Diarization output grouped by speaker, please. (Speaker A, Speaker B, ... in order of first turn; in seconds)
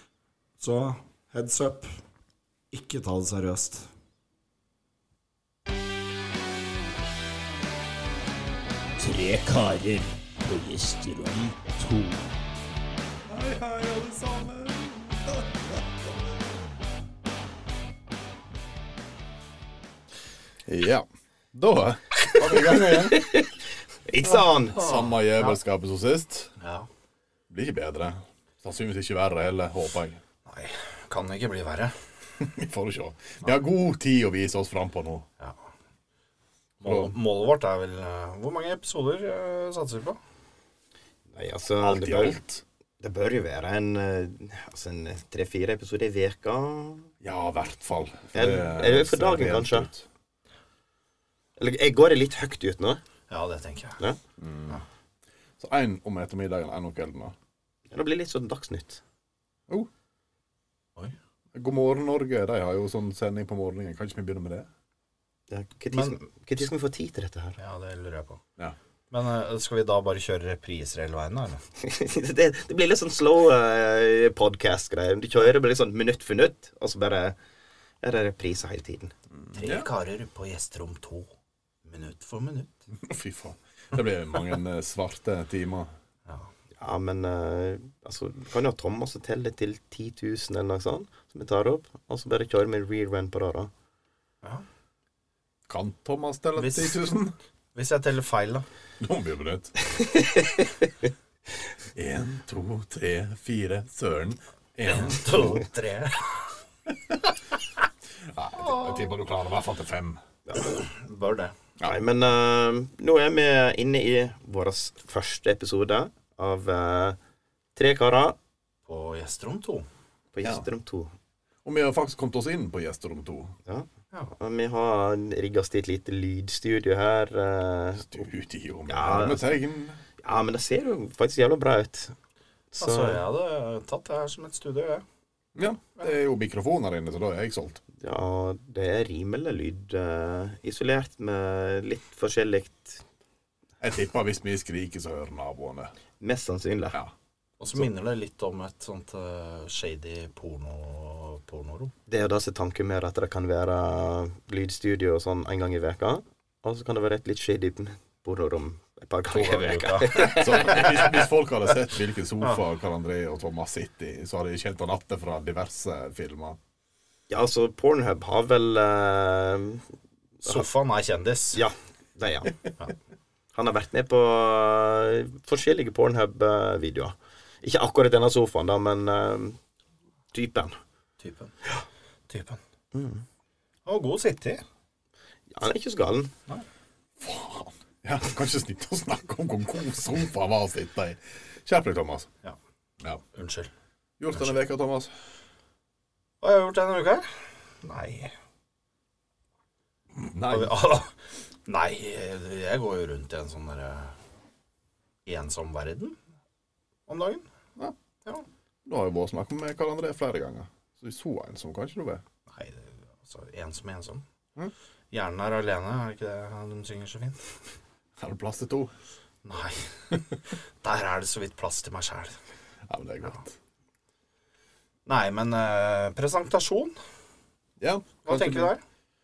Speaker A: 0.6-1.9, 2.7-3.9
Speaker B: 9.0-12.2
Speaker C: 13.3-16.1, 20.6-23.2, 24.2-26.5, 27.5-30.2, 32.4-35.2, 36.8-37.1, 41.8-42.6, 47.2-50.0, 54.4-54.8, 55.6-57.3, 61.5-64.7, 79.3-79.9, 82.9-85.9, 95.7-97.3, 99.0-99.7, 101.9-105.7, 108.2-110.2, 121.6-123.6, 128.0-130.0, 135.5-137.8, 143.8-145.9, 160.3-166.6, 187.2-192.3, 194.2-195.1, 200.1-200.8, 208.8-212.2, 218.2-218.9, 222.9-223.6, 227.8-228.7
Speaker D: 22.3-24.8, 41.3-42.4, 43.0-47.1, 48.3-49.9, 51.6-53.0, 57.9-59.0, 65.5-67.6, 71.8-77.3, 78.0-79.1, 86.8-93.7, 99.9-100.9, 110.5-110.7, 111.8-117.2, 117.8-118.4, 120.3-121.1, 123.7-128.2, 128.9-129.5, 130.2-132.1, 132.7-133.2, 138.0-143.0, 146.2-147.0, 152.1-161.3, 167.3-169.8, 171.5-172.6, 173.5-179.6, 180.3-180.8, 182.9-183.2, 185.5-186.3
Speaker E: 24.8-25.6, 26.6-26.9, 30.4-31.9, 35.4-35.7, 36.8-40.2, 53.3-54.0, 65.9-66.2, 67.6-68.4, 69.1-71.6, 79.5-81.3, 81.8-82.9, 96.6-97.1, 97.7-98.6, 104.8-106.5, 108.6-109.0, 110.8-111.5, 118.9-119.8, 132.8-135.0, 147.6-151.9, 159.3-161.1, 170.4-171.6, 181.2-181.5, 182.3-182.6, 183.8-184.6, 193.3-193.7, 196.4-198.3, 200.5-201.1, 201.7-204.2, 205.2-206.2, 207.1-207.5, 212.5-214.2, 215.1-217.5, 219.4-222.4, 225.1-226.9, 228.2-228.8